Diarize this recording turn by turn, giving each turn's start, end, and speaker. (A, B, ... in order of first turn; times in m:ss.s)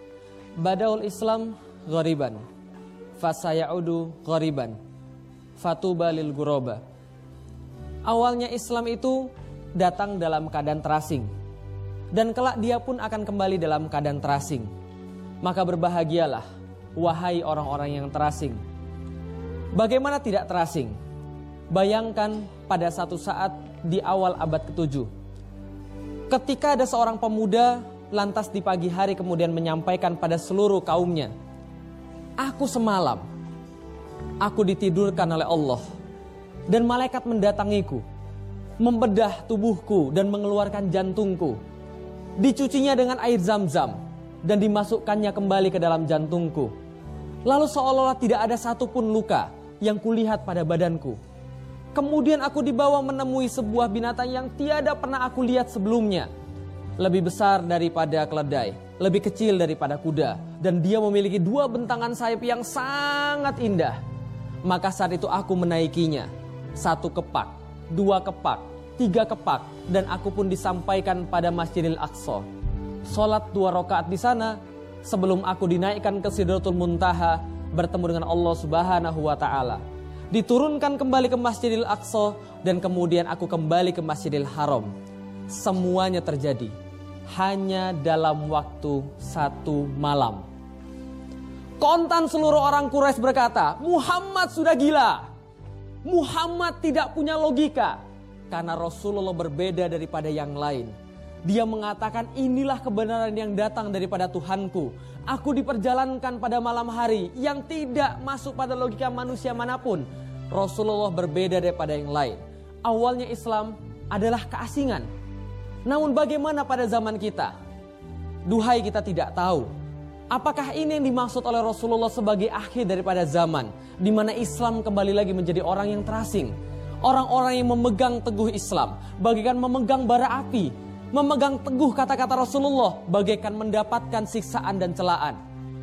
0:00.6-0:02.4 A
0:03.2-0:04.8 A
0:05.6-0:06.8 A
0:08.0-0:11.3 A
0:12.1-0:14.7 A
0:15.4-0:16.4 A
0:17.0-0:18.6 A
0:19.7-0:21.0 A
0:21.7-0:25.1 A
0:26.3-0:31.3 A
0:32.4-0:33.2 A
0:34.4-0:35.8 A
0:36.7-0:38.0 A
0:38.8-0:41.6 A
0:42.4-0:46.7 A
0:47.4-0:51.2 A
0:51.9-0:56.3 A
0:57.0-1:04.0 A
1:04.6-1:12.4 A
1:13.1-1:24.9 A
1:25.5-1:26.7 A
1:27.3-1:30.4 A
1:31.8-1:35.3 A
1:36.0-1:40.9 A
1:41.4-1:55.1 A
1:55.8-1:57.5 A
1:58.4-1:59.7 A
2:00.3-2:15.4 A